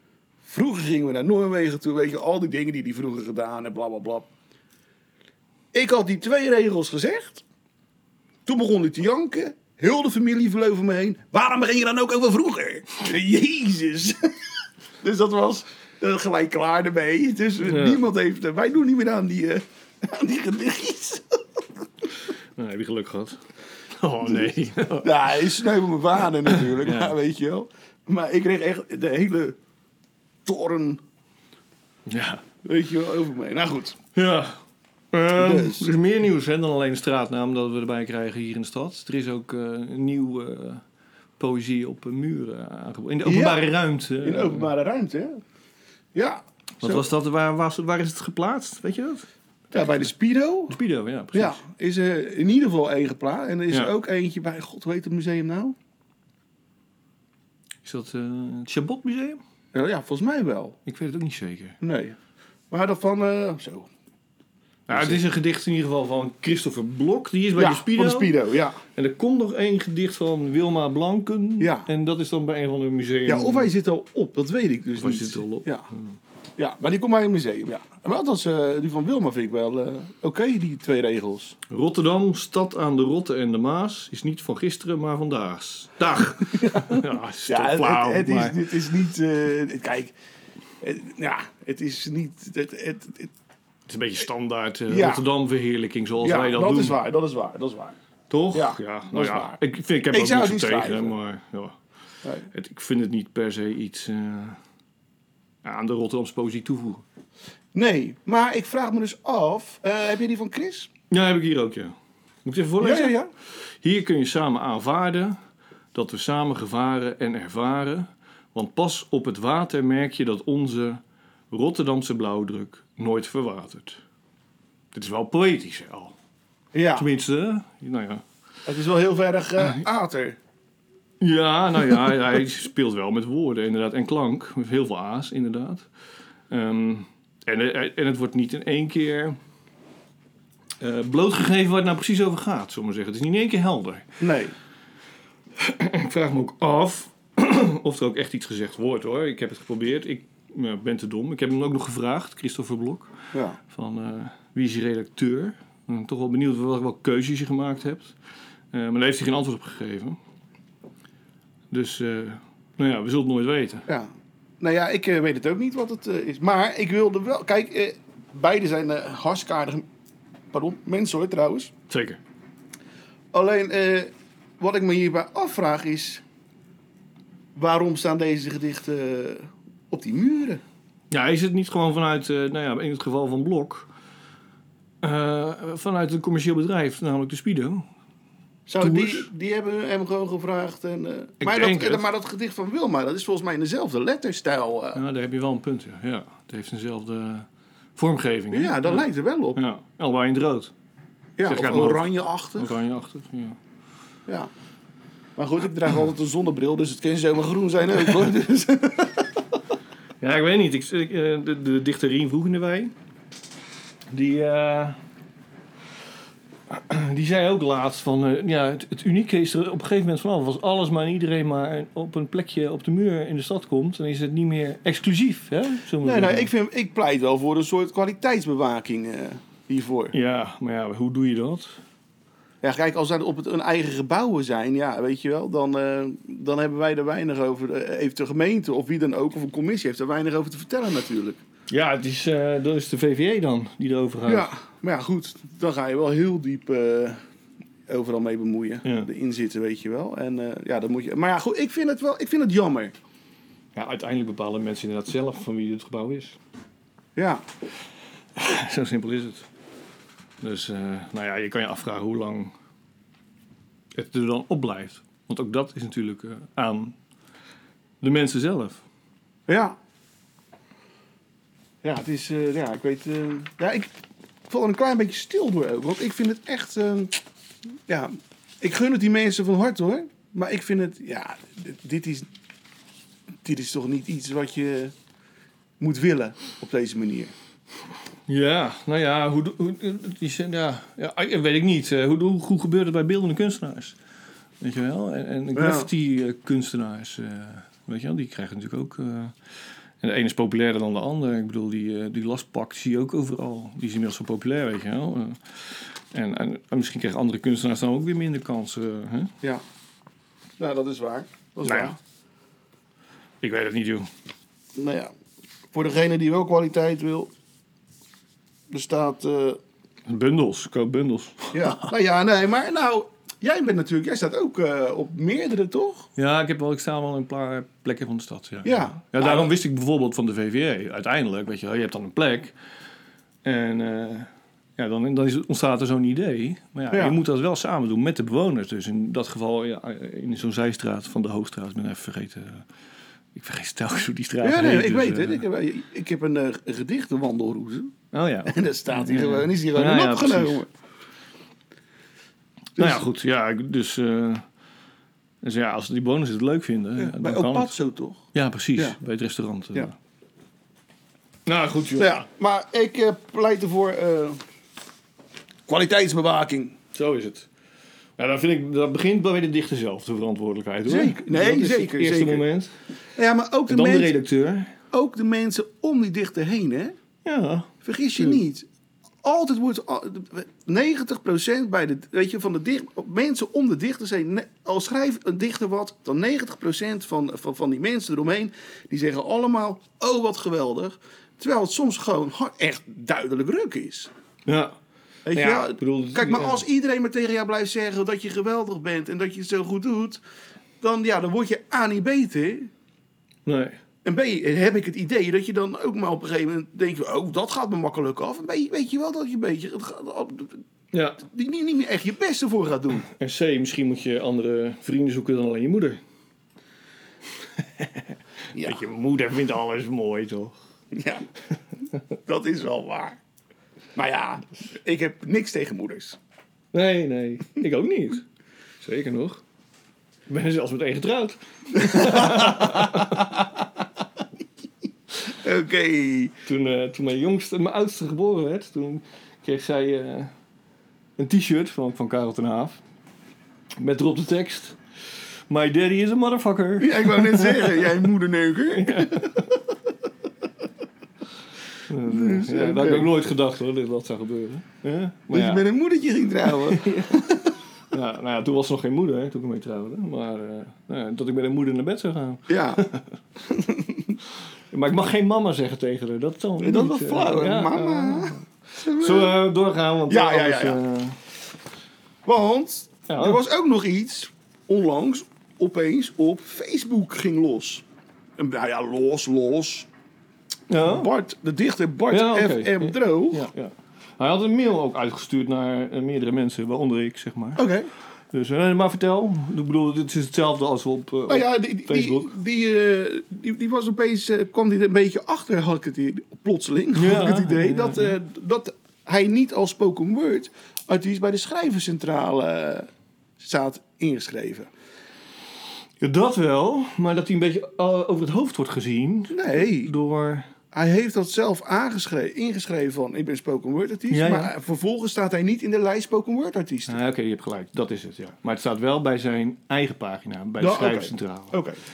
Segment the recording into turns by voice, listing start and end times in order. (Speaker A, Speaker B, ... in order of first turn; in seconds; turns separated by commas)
Speaker A: 0.4-4.3, Speaker A: 5.7-7.4, Speaker A: 8.4-14.3, Speaker A: 15.0-21.6, Speaker B: 17.6-18.0, Speaker B: 22.6-23.4, Speaker B: 23.9-25.5, Speaker A: 25.0-29.6, Speaker B: 26.5-27.1, Speaker A: 30.4-31.0, Speaker B: 32.1-32.4, Speaker A: 32.6-34.0, Speaker B: 34.1-34.6, Speaker B: 35.1-40.8, Speaker A: 35.4-35.9, Speaker B: 41.4-44.7, Speaker A: 43.2-43.7, Speaker A: 44.2-45.4, Speaker A: 46.1-47.0, Speaker B: 46.8-50.1, Speaker A: 49.7-50.8, Speaker B: 50.7-51.6, Speaker A: 51.3-55.8, Speaker B: 57.8-59.4, Speaker A: 59.7-60.8, Speaker B: 60.9-61.8, Speaker A: 61.8-62.1, Speaker A: 62.7-63.9, Speaker B: 64.9-68.3, Speaker A: 64.9-65.2, Speaker A: 67.5-68.8, Speaker B: 68.9-73.7, Speaker A: 71.6-71.9, Speaker A: 73.3-75.8, Speaker B: 75.0-76.2, Speaker A: 76.6-81.5, Speaker B: 81.7-88.6, Speaker A: 86.5-90.1, Speaker A: 90.8-93.3, Speaker B: 93.9-97.0, Speaker A: 94.9-95.2, Speaker A: 96.2-98.0, Speaker B: 98.3-101.8, Speaker A: 98.5-99.6, Speaker A: 100.1-101.1, Speaker A: 102.2-102.5, Speaker B: 102.5-104.6, Speaker B: 105.6-107.0, Speaker A: 107.7-110.9, Speaker B: 111.1-111.9, Speaker B: 112.4-113.2, Speaker A: 112.8-113.3, Speaker B: 113.8-115.4, Speaker B: 115.9-124.0, Speaker B: 124.9-126.1, Speaker A: 126.7-127.1, Speaker B: 126.9-128.2, Speaker A: 128.7-130.4, Speaker B: 131.2-135.9, Speaker B: 136.5-139.4, Speaker B: 140.8-144.2, Speaker A: 144.2-144.5, Speaker B: 145.6-153.1, Speaker A: 153.3-153.6, Speaker B: 153.7-158.2, Speaker B: 158.7-160.2, Speaker B: 161.7-163.9, Speaker A: 163.9-169.8, Speaker A: 170.5-171.7, Speaker B: 171.9-172.2, Speaker A: 173.3-176.2, Speaker A: 177.5-180.6, Speaker B: 181.1-183.9, Speaker B: 185.0-187.8, Speaker A: 188.7-195.0, Speaker B: 188.8-189.3, Speaker B: 191.4-192.0, Speaker B: 194.9-200.7, Speaker A: 198.5-199.6, Speaker A: 201.4-202.8, Speaker B: 201.4-203.6, Speaker A: 205.3-209.4, Speaker B: 210.2-212.9, Speaker B: 214.1-215.0, Speaker B: 216.7-226.5, Speaker A: 226.0-230.1, Speaker B: 230.1-231.8, Speaker A: 232.6-241.4, Speaker B: 241.7-244.5, Speaker A: 244.2-247.2, Speaker A: 247.9-252.9, Speaker B: 253.7-256.4, Speaker A: 257.1-257.4, Speaker B: 258.4-259.4, Speaker B: 260.4-262.5, Speaker B: 263.9-266.9, Speaker B: 268.0-268.8, Speaker A: 269.5-269.8, Speaker A: 271.8-273.9, Speaker A: 274.5-277.2, Speaker A: 277.9-282.3, Speaker A: 283.4-284.9, Speaker A: 285.8-287.3, Speaker B: 288.3-294.0, Speaker B: 294.6-299.3, Speaker A: 295.5-295.9, Speaker B: 300.0-309.3, Speaker A: 310.6-312.0, Speaker B: 311.6-311.9, Speaker B: 313.4-314.1, Speaker A: 314.8-315.1, Speaker A: 315.7-317.3, Speaker A: 318.7-319.6, Speaker B: 320.1-321.9, Speaker A: 321.5-326.1, Speaker B: 326.1-332.5, Speaker A: 328.6-329.5, Speaker B: 333.4-342.6, Speaker A: 336.9-337.2, Speaker B: 343.3-345.4, Speaker A: 344.4-347.9, Speaker B: 348.1-350.6, Speaker A: 348.5-350.7, Speaker B: 352.8-354.4, Speaker B: 355.4-357.8, Speaker A: 357.0-358.2, Speaker B: 358.3-359.9, Speaker B: 361.4-362.2, Speaker A: 362.0-364.4, Speaker A: 365.7-366.8, Speaker B: 366.9-367.5, Speaker B: 368.2-372.7, Speaker A: 370.9-372.4, Speaker A: 373.1-374.1, Speaker B: 373.7-374.7, Speaker A: 374.9-376.9, Speaker B: 377.2-378.4, Speaker A: 377.8-378.6, Speaker A: 379.2-394.1, Speaker B: 394.4-394.7, Speaker A: 395.2-400.2, Speaker B: 395.3-396.6, Speaker A: 400.8-402.7, Speaker B: 403.4-403.8, Speaker A: 404.0-410.6, Speaker B: 410.9-411.2, Speaker A: 411.2-413.1, Speaker B: 413.1-416.0, Speaker B: 417.8-418.0, Speaker A: 418.5-418.8, Speaker B: 418.6-420.6, Speaker A: 420.9-421.2, Speaker A: 422.2-423.2, Speaker A: 423.9-426.2, Speaker B: 426.7-428.2, Speaker B: 428.8-429.4, Speaker B: 430.3-433.3, Speaker A: 431.7-433.6, Speaker A: 435.3-436.3, Speaker B: 436.4-440.3, Speaker B: 441.2-442.8, Speaker B: 443.8-444.8, Speaker B: 445.5-447.9, Speaker A: 446.8-449.3, Speaker B: 448.8-449.5, Speaker B: 451.9-455.6, Speaker A: 452.0-453.1, Speaker A: 455.3-457.6, Speaker B: 456.6-457.3, Speaker B: 457.9-463.1, Speaker A: 462.5-462.8, Speaker A: 463.4-464.2, Speaker B: 464.7-471.2, Speaker A: 466.6-469.3, Speaker A: 470.1-470.8, Speaker A: 472.2-477.8, Speaker B: 473.1-473.4, Speaker A: 478.4-479.9, Speaker B: 480.7-481.1, Speaker A: 480.8-483.5, Speaker B: 482.1-487.6, Speaker A: 487.6-487.9, Speaker B: 488.3-492.3, Speaker A: 491.3-502.9, Speaker B: 496.9-498.1, Speaker A: 503.4-504.7, Speaker B: 506.0-510.5, Speaker A: 509.3-509.9, Speaker A: 510.7-517.0, Speaker B: 514.1-514.5, Speaker B: 516.9-521.6, Speaker A: 520.6-521.8